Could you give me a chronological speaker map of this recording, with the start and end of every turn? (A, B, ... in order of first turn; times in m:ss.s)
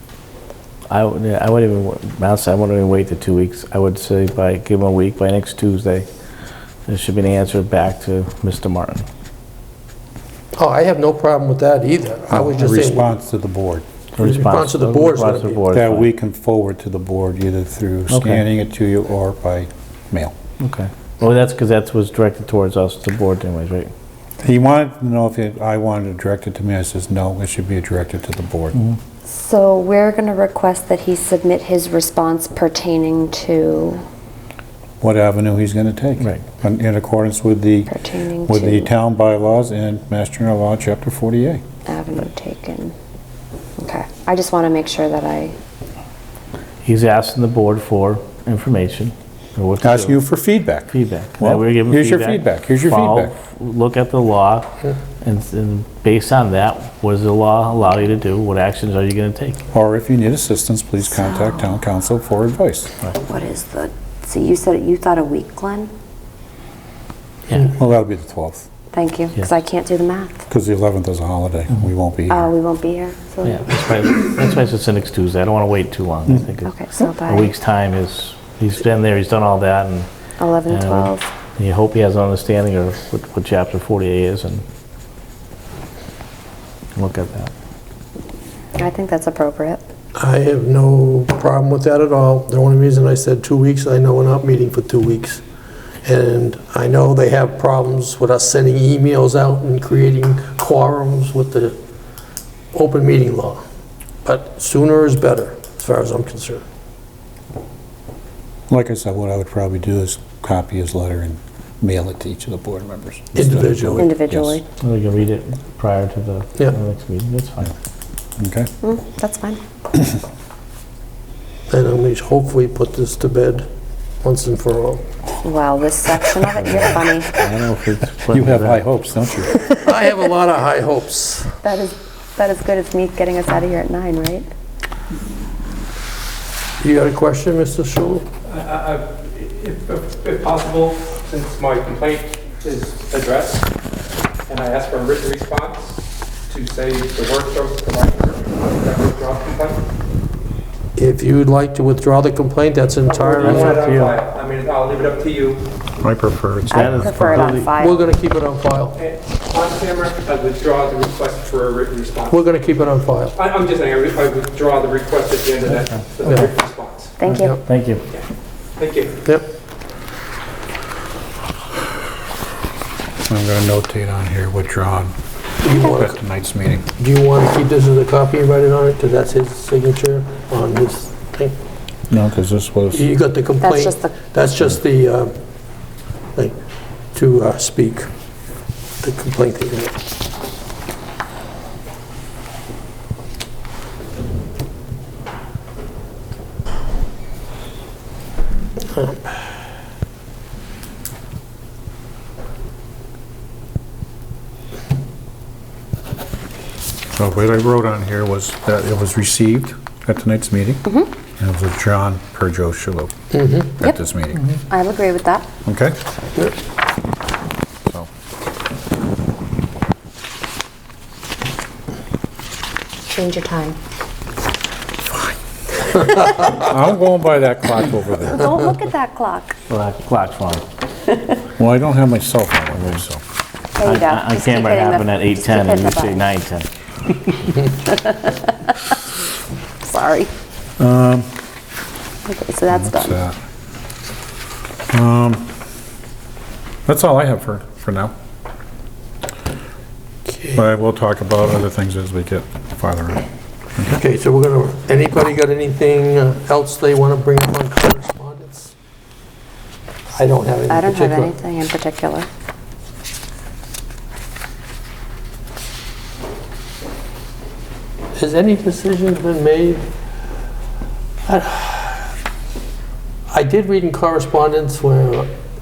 0:00.9-0:06.1 A
0:06.9-0:09.0 A
0:10.6-0:13.1 B
0:12.3-0:13.8 C
0:14.2-0:16.1 A
0:14.2-0:15.6 B
0:15.7-0:20.3 C
0:18.1-0:18.4 A
0:20.6-0:23.9 A
0:24.4-0:28.8 C
0:29.3-0:34.0 D
0:35.0-0:37.9 C
0:37.9-0:38.9 D
0:38.4-0:41.6 C
0:41.9-0:42.9 D
0:43.8-0:45.5 D
0:46.8-0:50.2 A
0:49.8-0:53.3 C
0:50.9-0:59.6 A
0:59.7-1:02.9 C
1:03.2-1:05.9 D
1:07.5-1:07.7 A
1:07.7-1:08.6 C
1:08.9-1:10.4 D
1:10.5-1:12.5 C
1:12.3-1:13.6 D
1:13.4-1:20.1 A
1:16.6-1:17.5 D
1:20.4-1:21.3 D
1:20.7-1:24.6 A
1:26.9-1:27.5 A
1:28.8-1:29.8 D
1:30.2-1:35.4 B
1:36.0-1:41.8 B
1:42.7-1:43.6 B
1:44.2-1:46.6 B
1:48.7-1:54.6 C
1:53.3-1:54.1 B
1:54.0-1:54.6 D
1:54.8-1:57.7 A
1:58.4-1:58.7 C
1:58.8-1:59.6 D
2:01.7-2:03.7 B
2:04.2-2:05.0 B
2:05.4-2:07.3 D
2:06.6-2:08.8 A
2:08.3-2:09.7 C
2:09.7-2:11.5 B
2:11.6-2:14.5 D
2:16.8-2:18.2 B
2:18.5-2:23.7 E
2:24.5-2:29.8 E
2:31.0-2:33.8 B
2:33.0-2:35.6 E
2:33.4-2:34.2 A
2:36.0-2:37.5 C
2:36.7-2:37.7 A
2:36.7-2:38.0 D
2:37.8-2:39.0 B
2:39.0-2:42.5 E
2:42.3-2:43.3 B
2:43.3-2:47.2 E
2:46.2-2:46.5 B
2:47.2-2:47.6 D
2:47.3-2:48.0 A
2:48.8-2:49.1 E
2:53.3-2:55.1 C
2:55.6-2:56.2 B
2:55.8-2:56.8 C
2:57.0-3:01.5 B
3:02.1-3:03.1 C
3:02.9-3:05.3 B
3:03.6-3:04.2 D
3:07.1-3:08.1 B
3:09.0-3:10.0 B
3:18.9-3:19.2 B
3:27.2-3:33.1 C
3:33.3-3:33.7 B
3:33.6-3:34.4 C
3:34.7-3:35.5 D
3:35.6-3:36.0 C
3:43.1-3:43.8 D
3:46.4-3:48.5 C
3:48.3-3:49.6 D
3:49.7-3:50.6 A
3:51.6-3:53.2 C
3:52.7-3:53.0 A
3:53.8-3:56.2 D
3:53.8-3:57.5 A
3:57.6-3:58.9 D
3:59.8-4:00.3 D
4:00.8-4:01.3 C
4:02.2-4:03.2 D
4:02.7-4:03.4 C
4:04.9-4:05.5 C
4:06.8-4:08.1 C
4:10.3-4:10.6 B
4:10.5-4:13.2 C
4:13.8-4:14.0 C
4:13.9-4:18.7 B
4:20.2-4:21.3 B
4:20.7-4:22.3 D
4:28.1-4:29.8 B
4:31.2-4:32.1 B
4:33.3-4:35.3 B